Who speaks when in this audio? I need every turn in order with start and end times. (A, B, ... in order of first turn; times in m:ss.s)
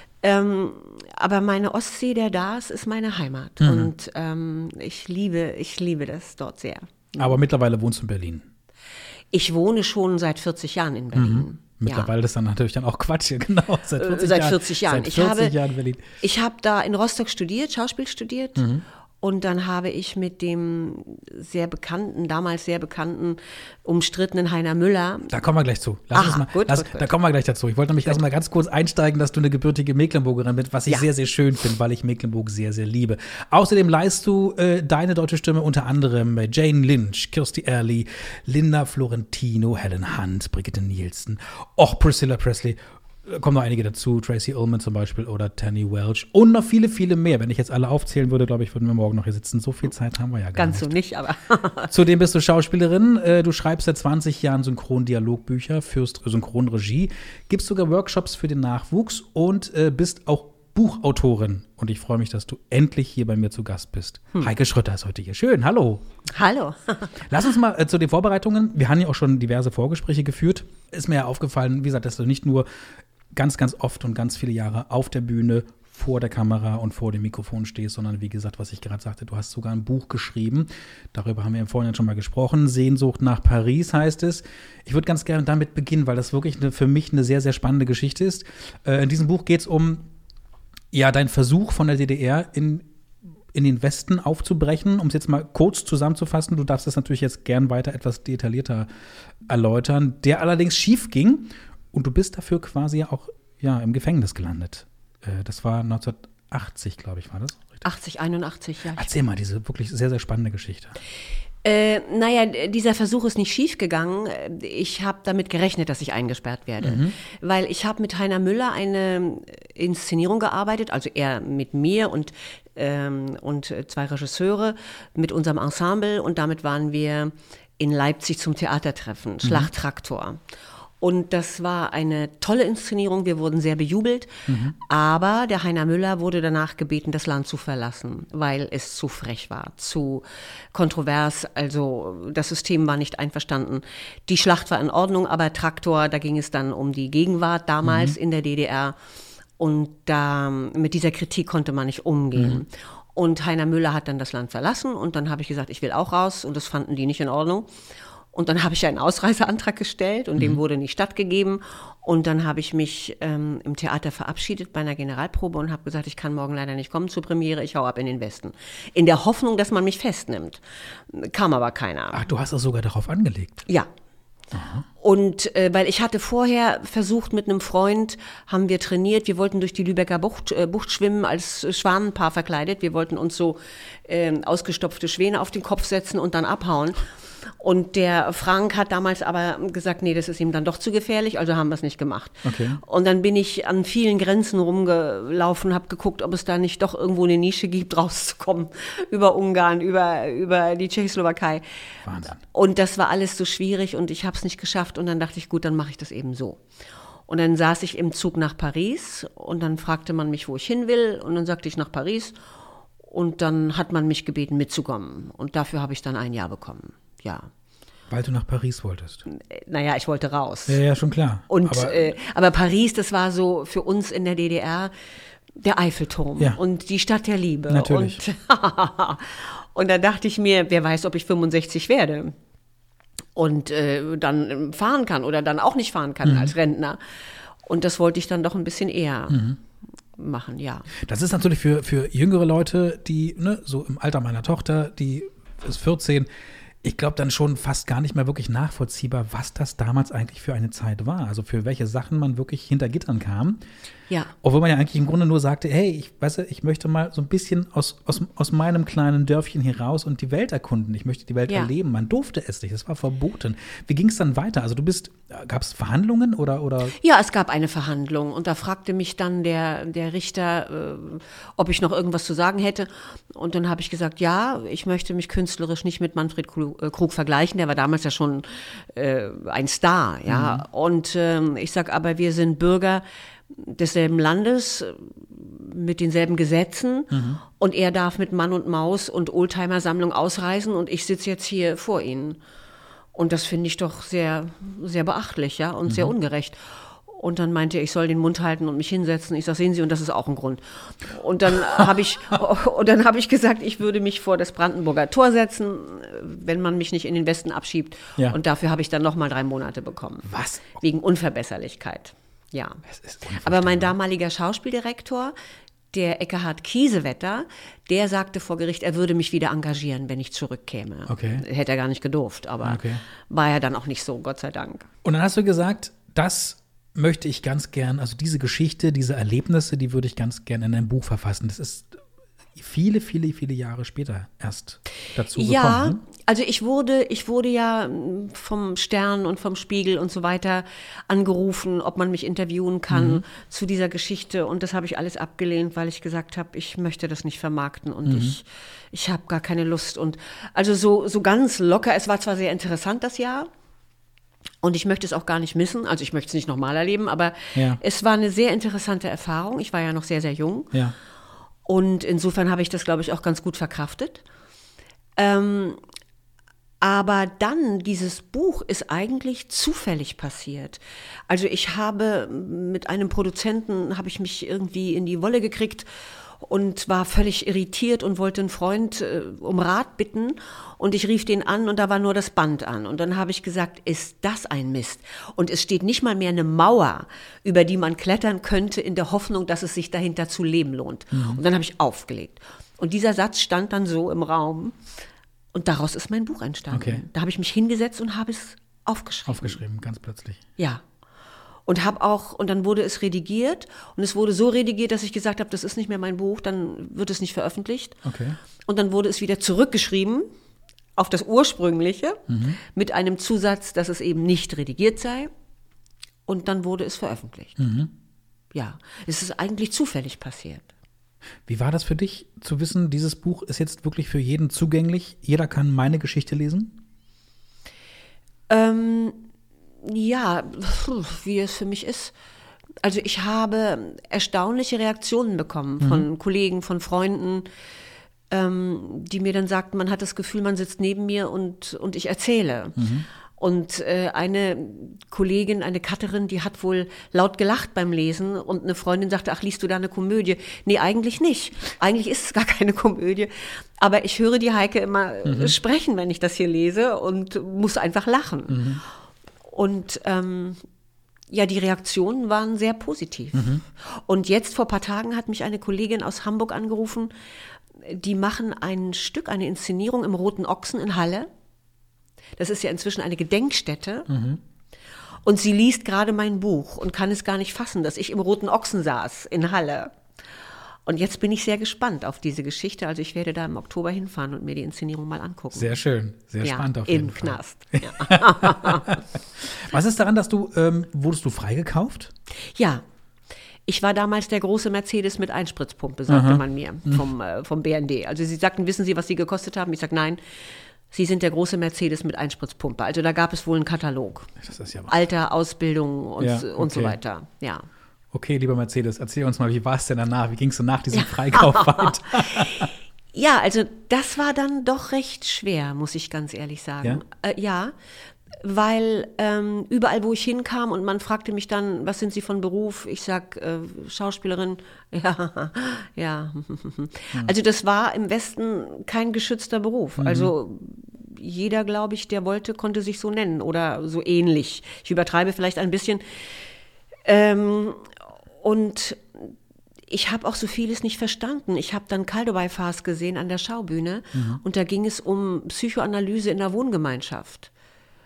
0:00.2-0:07.3 A
0:03.6-0:03.9 B
0:07.2-0:08.5 B
0:09.3-0:12.1 A
0:11.1-0:16.0 B
0:14.0-0:15.6 A
0:16.2-0:18.6 A
0:18.6-0:18.8 B
0:19.2-0:25.3 A
0:25.3-0:50.9 B
0:26.1-0:27.1 A
0:50.6-0:51.9 A
0:51.9-1:06.0 B
1:06.3-1:07.2 A
1:07.3-1:12.7 B
1:13.3-1:30.1 B
1:30.9-1:32.9 B
1:33.5-1:38.9 B
1:39.4-1:47.8 B
1:47.8-1:49.1 A
1:49.0-1:51.0 B
1:51.6-2:10.4 A
1:56.8-1:57.2 B
2:09.4-2:09.7 B
2:11.0-2:29.0 A
2:14.5-2:14.8 B
2:27.8-2:28.2 B
2:29.6-2:37.7 A
2:32.3-2:32.6 B
2:38.3-2:52.2 A
2:52.1-2:53.6 B
2:54.5-2:54.8 B
2:55.0-3:07.0 A
3:07.6-3:21.6 A
3:12.4-3:12.8 B
3:22.0-3:22.4 B
3:22.5-3:26.6 A
3:27.3-3:32.4 A
3:33.1-3:37.5 A
3:38.1-3:39.2 B
3:39.3-3:40.8 A
3:40.7-3:42.0 B
3:41.5-3:44.9 A
3:45.6-3:52.3 A
3:47.7-3:48.2 B
3:53.4-3:57.0 A
3:56.2-3:56.5 B
3:57.6-3:59.4 A
3:59.3-3:59.6 B
4:00.2-4:00.9 A
4:01.0-4:06.3 B
4:06.8-4:13.6 B
4:14.4-4:27.0 B
4:27.0-4:52.4 A
4:40.3-4:40.6 B
4:47.1-4:47.4 B
4:53.1-5:12.8 A
4:55.9-4:56.1 B
5:10.3-5:10.8 B
5:12.9-5:13.9 B
5:13.4-5:15.3 A
5:15.9-5:24.9 A
5:21.1-5:21.4 B
5:22.6-5:23.0 B
5:25.0-5:32.0 B
5:32.6-5:36.0 B
5:35.4-5:53.5 A
5:42.9-5:43.2 B
5:48.0-5:48.4 B
5:54.6-6:00.8 A
5:57.5-5:57.8 B
6:01.7-6:04.2 A
6:05.2-6:05.8 A
6:06.8-6:15.9 A
6:16.4-6:34.8 A
6:31.1-6:31.4 B
6:35.5-6:39.6 A
6:36.7-6:37.0 B
6:39.3-6:40.4 B
6:40.6-6:40.8 A
6:41.7-6:48.0 A
6:48.0-6:48.4 B
6:48.7-6:50.3 A
6:51.0-6:55.3 A
6:52.3-6:52.6 B
6:56.3-6:57.6 A
6:57.6-6:57.9 B
6:58.5-7:00.7 A
7:01.5-7:06.8 B
7:08.5-7:09.2 A
7:09.8-7:12.1 A
7:12.8-7:17.5 A
7:15.8-7:16.1 B
7:18.3-7:22.8 A
7:22.8-7:23.1 B
7:23.4-7:38.8 A
7:35.2-7:35.5 B
7:38.5-7:38.8 B
7:39.5-7:40.6 A
7:41.3-7:47.1 A
7:43.3-7:43.6 B
7:47.8-7:51.3 A
7:52.4-7:54.1 A
7:54.1-7:54.4 B
7:55.2-8:00.0 A
8:00.9-8:05.7 A
8:05.5-8:12.1 B
8:06.4-8:09.0 A
8:12.6-8:12.8 A
8:13.7-8:20.2 A
8:16.1-8:17.1 B
8:20.9-8:24.3 A
8:24.4-8:24.9 B
8:24.9-8:27.7 A
8:26.2-8:27.0 B
8:28.1-8:32.7 B
8:30.9-8:37.7 A
8:38.4-8:56.3 A
8:50.0-8:50.3 B
8:57.1-8:59.3 A
8:59.9-9:07.5 A
9:04.1-9:04.4 B